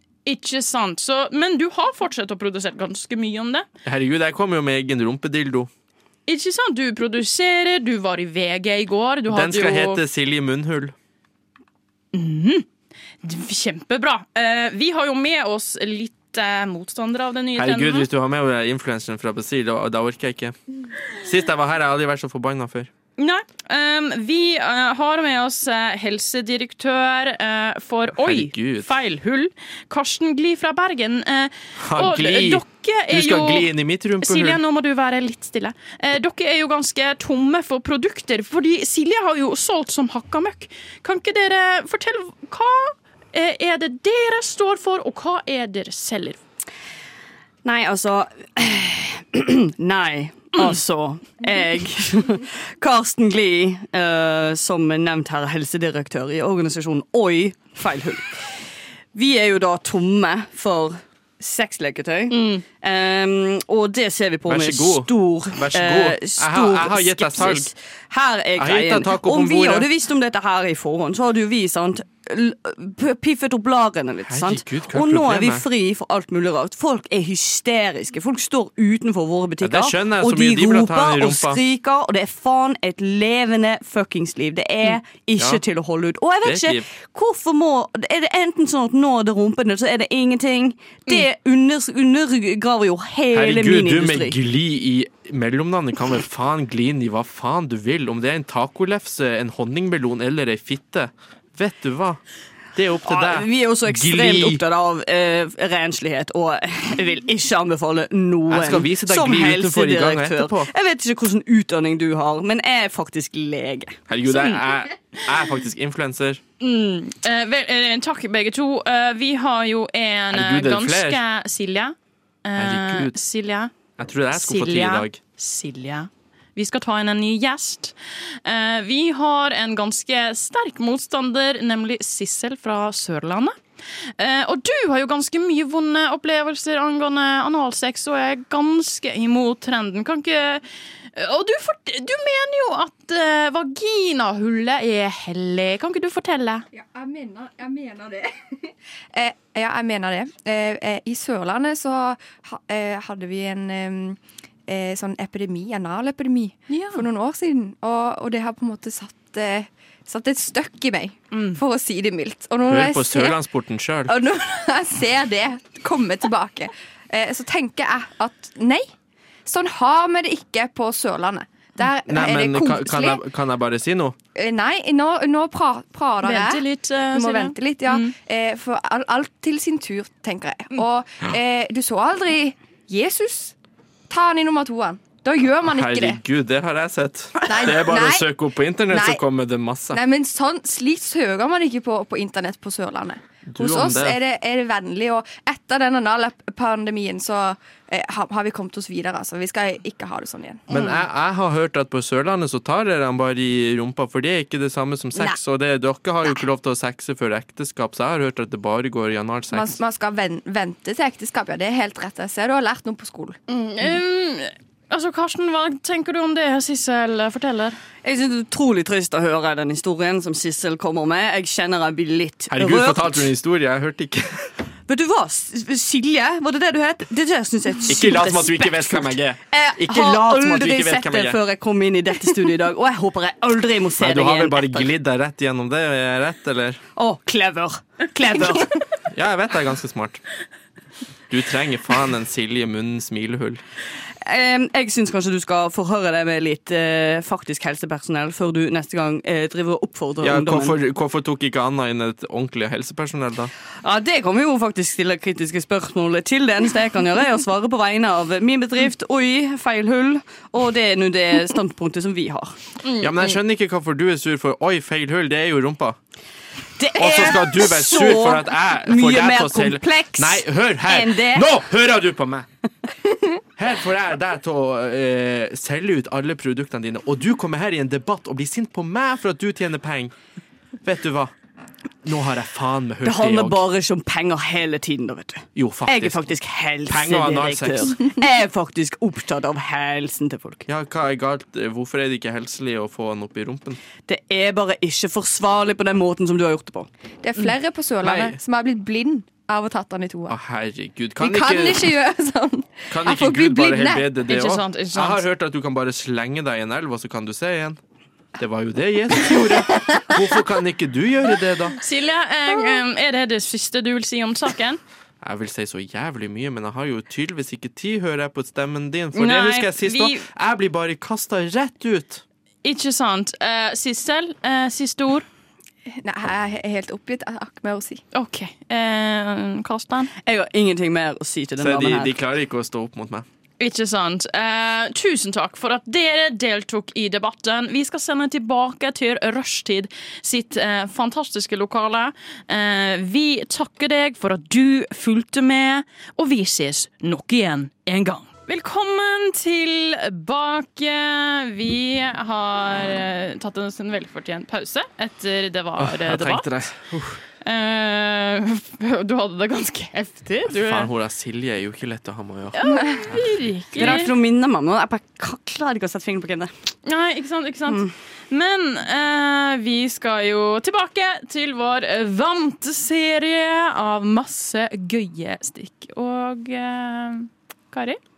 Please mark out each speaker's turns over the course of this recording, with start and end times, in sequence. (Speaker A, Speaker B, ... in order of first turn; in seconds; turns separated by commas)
Speaker A: 0.3-3.7, Speaker B: 3.9-5.7, Speaker A: 6.3-10.0, Speaker B: 9.3-10.9, Speaker A: 12.1-12.7, Speaker A: 13.2-18.1, Speaker B: 17.6-20.6, Speaker B: 21.2-22.9, Speaker A: 23.2-33.7, Speaker B: 28.2-28.9, Speaker B: 31.8-34.6, Speaker A: 34.2-46.4, Speaker C: 47.6-58.5, Speaker C: 59.1-94.4, Speaker A: 62.3-62.6, Speaker B: 64.5-67.7, Speaker B: 68.6-69.9, Speaker B: 74.2-75.7, Speaker B: 79.6-81.6, Speaker B: 86.4-86.9, Speaker B: 93.3-102.2, Speaker B: 102.8-104.6, Speaker C: 103.0-114.0, Speaker B: 108.5-110.7, Speaker B: 114.1-116.4, Speaker A: 114.3-114.6, Speaker A: 116.6-123.7, Speaker B: 120.3-121.2, Speaker B: 122.6-123.2, Speaker B: 124.0-125.2, Speaker A: 124.3-133.6, Speaker A: 134.2-140.6, Speaker A: 141.2-146.7, Speaker D: 146.7-163.4, Speaker A: 156.7-157.1, Speaker A: 161.3-161.6, Speaker B: 162.7-164.2, Speaker D: 164.1-168.9, Speaker D: 169.5-173.2, Speaker B: 172.1-174.2, Speaker D: 174.3-183.5, Speaker A: 176.2-178.1, Speaker D: 184.1-186.2, Speaker B: 185.7-190.0, Speaker D: 187.4-188.3, Speaker D: 188.9-189.2, Speaker D: 189.9-200.7, Speaker B: 193.5-194.2, Speaker B: 200.7-209.8, Speaker D: 209.5-213.4, Speaker A: 213.5-217.8, Speaker C: 218.0-223.3, Speaker B: 222.5-224.5, Speaker C: 224.9-234.9, Speaker B: 227.9-231.4, Speaker B: 234.0-236.8, Speaker C: 237.0-238.8, Speaker B: 239.1-240.2, Speaker B: 241.3-243.6, Speaker C: 244.2-250.8, Speaker B: 250.2-253.5, Speaker C: 253.8-262.6, Speaker A: 262.8-263.3, Speaker B: 263.0-266.0, Speaker C: 266.8-271.5, Speaker B: 266.9-272.5, Speaker B: 273.6-280.1, Speaker B: 280.8-281.3, Speaker B: 282.0-283.6, Speaker C: 283.0-290.7, Speaker B: 285.6-286.3, Speaker B: 286.9-288.0, Speaker B: 290.7-293.8, Speaker C: 294.1-296.9, Speaker D: 297.2-300.4, Speaker B: 298.0-298.4, Speaker B: 300.3-301.9, Speaker D: 301.2-304.1, Speaker B: 302.9-307.8, Speaker A: 304.3-305.2, Speaker B: 308.4-311.8, Speaker A: 311.8-314.8, Speaker B: 315.2-322.2, Speaker A: 319.1-320.2, Speaker A: 322.6-325.3, Speaker D: 326.0-328.0, Speaker A: 328.1-330.1, Speaker C: 330.2-332.1, Speaker B: 331.6-333.3, Speaker A: 333.6-356.7, Speaker B: 355.8-357.2, Speaker A: 357.4-360.9, Speaker B: 360.5-364.1, Speaker A: 362.5-364.1, Speaker C: 363.8-366.5, Speaker A: 366.9-378.0